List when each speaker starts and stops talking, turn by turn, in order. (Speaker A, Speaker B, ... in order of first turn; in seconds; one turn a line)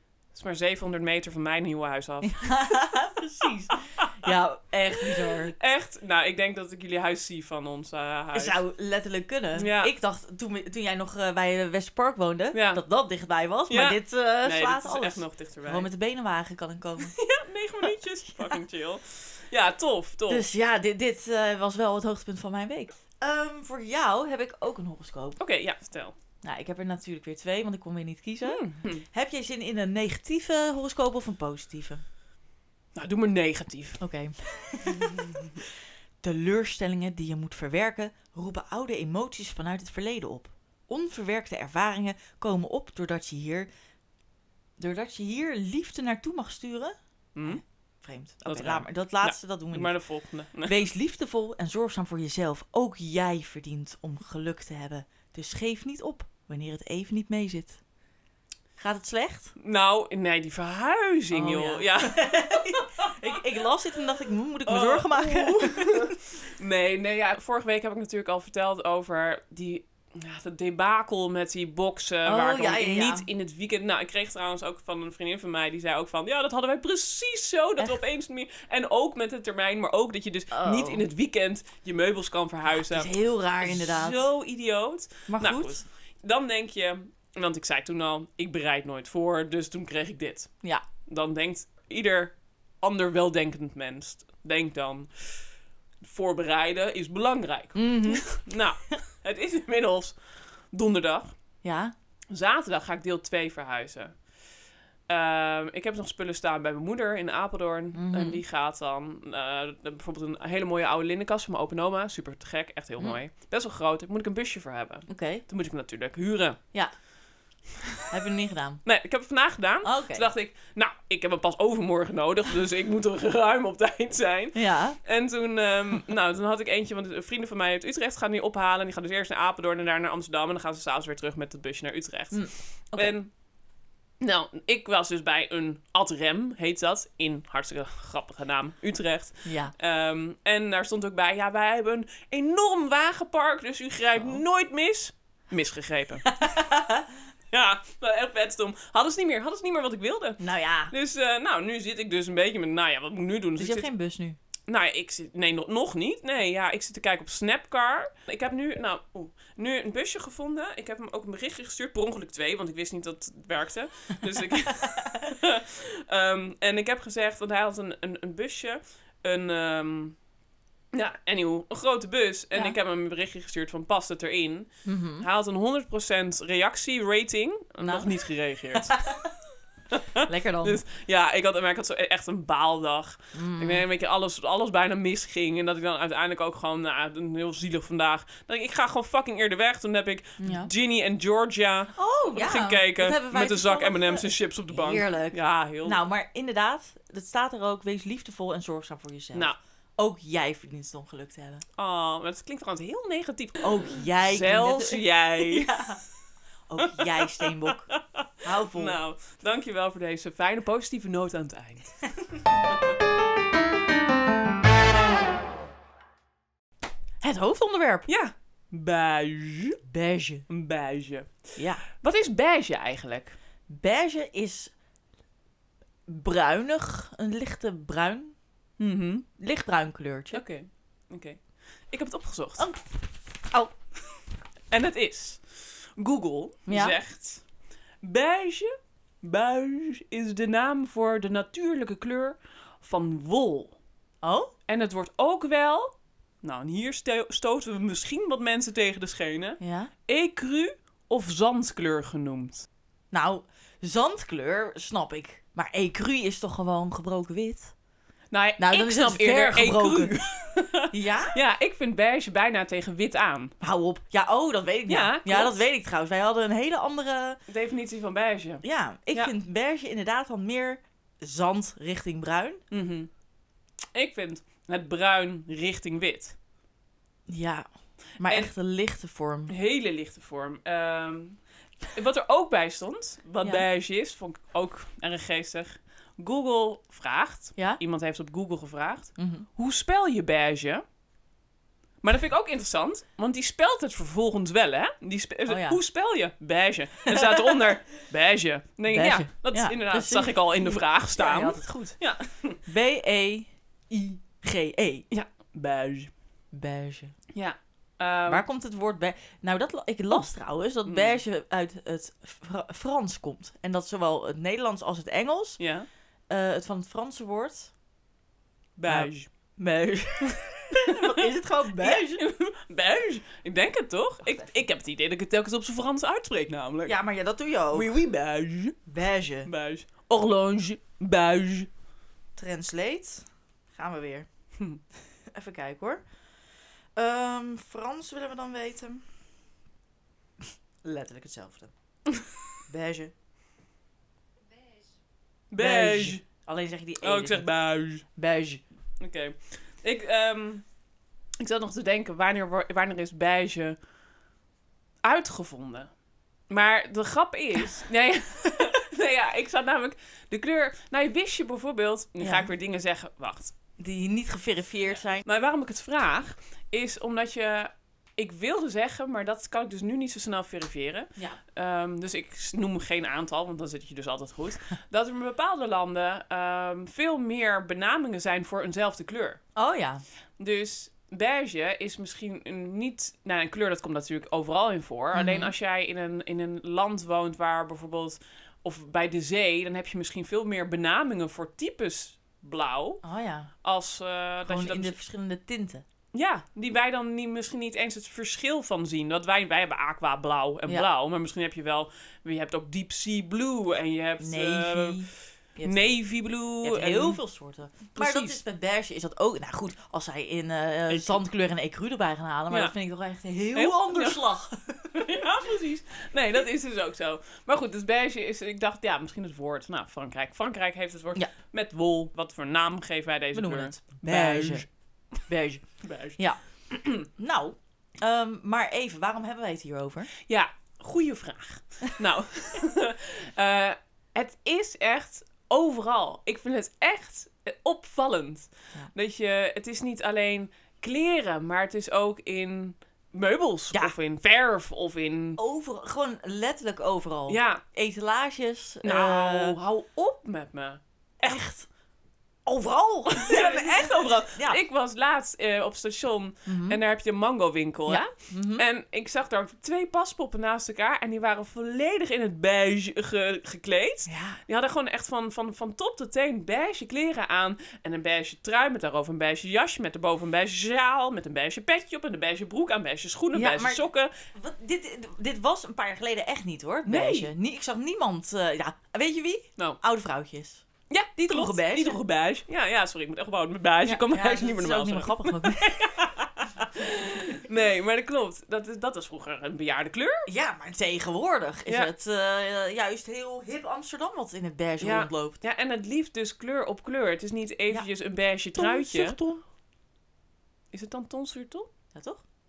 Speaker A: 0.3-2.4
Speaker B: 2.2-5.5
Speaker A: 4.0-4.3
Speaker A: 5.0-8.6
Speaker B: 8.3-17.1
Speaker A: 9.5-9.9
Speaker A: 12.5-12.8
Speaker A: 13.7-15.9
Speaker A: 17.0-20.4
Speaker B: 17.9-18.6
Speaker B: 20.3-25.4
Speaker A: 25.4-26.1
Speaker B: 26.4-32.0
Speaker A: 28.4-29.0
Speaker A: 32.9-34.0
Speaker B: 34.0-43.7
Speaker A: 34.8-35.6
Speaker B: 44.8-49.9
Speaker A: 47.3-47.6
Speaker A: 48.4-50.8
Speaker B: 50.6-57.8
Speaker B: 58.8-59.5
Speaker A: 59.6-63.1
Speaker B: 61.3-66.2
Speaker A: 64.7-90.5
Speaker B: 72.2-73.3
Speaker B: 80.5-81.0
Speaker B: 82.7-84.3
Speaker B: 85.3-85.8
Speaker A: 91.1-95.4
Speaker A: 96.0-101.3
Speaker B: 97.7-98.3
Speaker B: 101.6-101.9
Speaker A: 102.3-104.2
Speaker A: 105.1-116.6
Speaker B: 107.9-108.4
Speaker B: 115.1-115.4
Speaker B: 118.1-118.8
Speaker A: 118.8-133.3
Speaker B: 119.8-120.3
Speaker B: 124.5-125.0
Speaker B: 132.3-133.1
Speaker A: 134.2-146.3
Speaker B: 139.4-139.7
Speaker B: 146.2-147.1
Speaker A: 147.5-153.9
Speaker B: 150.4-150.9
Speaker B: 153.6-154.4
Speaker A: 154.7-170.2
Speaker B: 164.9-165.2
Speaker A: 170.9-179.0
Speaker B: 174.8-175.3
Speaker B: 177.8-178.1
Speaker B: 178.7-179.3
Speaker A: 179.9-196.0
Speaker B: 180.2-180.8
Speaker B: 183.3-183.8
Speaker B: 190.4-190.7
Speaker B: 191.9-201.6
Speaker A: 201.8-205.9
Speaker B: 203.6-206.0
Speaker B: 206.7-207.9
Speaker A: 206.8-212.1
Speaker B: 208.4-209.0
Speaker B: 217.2-218.1
Speaker A: 218.1-219.8
Speaker B: 219.8-220.4
Speaker A: 220.5-223.4
Speaker B: 221.6-221.8
Speaker B: 223.7-224.7
Speaker B: 226.1-228.3
Speaker A: 228.8-229.2
Speaker B: 229.4-230.4
Speaker A: 230.3-232.7
Speaker B: 232.6-233.7
Speaker A: 234.7-237.4
Speaker B: 236.7-236.9
Speaker A: 238.0-243.8
Speaker B: 244.2-244.5
Speaker A: 244.7-252.7
Speaker B: 249.6-249.9
Speaker B: 253.1-257.7
Speaker A: 258.3-263.5
Speaker B: 258.6-260.2
Speaker B: 260.9-261.4
Speaker B: 263.6-267.4
Speaker A: 264.9-265.6
Speaker A: 267.5-269.3
Speaker B: 268.6-272.6
Speaker A: 272.7-273.1
Speaker A: 273.9-276.4
Speaker B: 277.3-277.7
Speaker B: 278.2-279.5
Speaker A: 279.5-281.4
Speaker A: 281.9-290.8
Speaker B: 283.4-283.6
Speaker B: 289.2-289.4
Speaker A: 292.0-302.6
Speaker B: 295.5-295.8
Speaker B: 297.0-297.7
Speaker B: 298.9-302.1
Speaker B: 302.6-305.1
Speaker A: 305.1-306.1
Speaker B: 306.5-307.1
Speaker A: 307.3-308.4
Speaker B: 308.3-315.6
Speaker A: 310.8-311.2
Speaker A: 315.6-315.9
Speaker B: 316.3-317.7
Speaker A: 318.8-319.3
Speaker B: 318.9-322.2
Speaker A: 320.8-321.2
Speaker A: 321.8-327.0
Speaker B: 326.8-327.9
Speaker A: 327.7-328.8
Speaker B: 328.9-329.5
Speaker A: 329.4-331.7
Speaker B: 332.4-334.3
Speaker B: 335.3-336.0
Speaker B: 336.9-339.1
Speaker B: 340.8-341.7
Speaker B: 342.7-343.1
Speaker A: 345.5-346.2
Speaker B: 345.6-347.5
Speaker A: 347.0-348.0
Speaker B: 348.1-348.6
Speaker A: 349.0-350.6
Speaker A: 351.4-353.8
Speaker A: 355.0-355.9
Speaker A: 356.5-363.5
Speaker B: 362.2-362.5
Speaker B: 363.8-365.2
Speaker A: 365.2-379.4
Speaker B: 379.5-380.0
Speaker A: 380.4-393.0
Speaker B: 385.1-385.5
Speaker B: 393.0-393.5
Speaker A: 393.6-394.9
Speaker B: 394.4-395.8
Speaker A: 396.1-407.2
Speaker B: 404.2-405.9
Speaker B: 406.6-415.3
Speaker A: 407.9-408.4
Speaker A: 410.9-411.2
Speaker A: 413.5-414.2
Speaker A: 414.9-424.7
Speaker B: 423.3-424.7
Speaker B: 425.2-426.4
Speaker A: 425.8-427.1
Speaker B: 427.0-430.1
Speaker A: 430.2-445.4
Speaker B: 445.4-449.6
Speaker A: 447.3-447.6
Speaker A: 448.8-450.8
Speaker B: 451.2-451.7
Speaker B: 452.4-454.6
Speaker A: 453.1-474.1
Speaker B: 456.4-456.8
Speaker B: 457.9-458.6
Speaker B: 464.1-464.4
Speaker B: 473.3-480.6
Speaker A: 476.9-477.3
Speaker A: 480.9-490.3
Speaker B: 481.1-482.0
Speaker B: 483.8-486.1
Speaker B: 490.2-495.4
Speaker A: 494.8-499.2
Speaker B: 498.5-499.4
Speaker A: 500.7-501.7
Speaker B: 501.9-502.2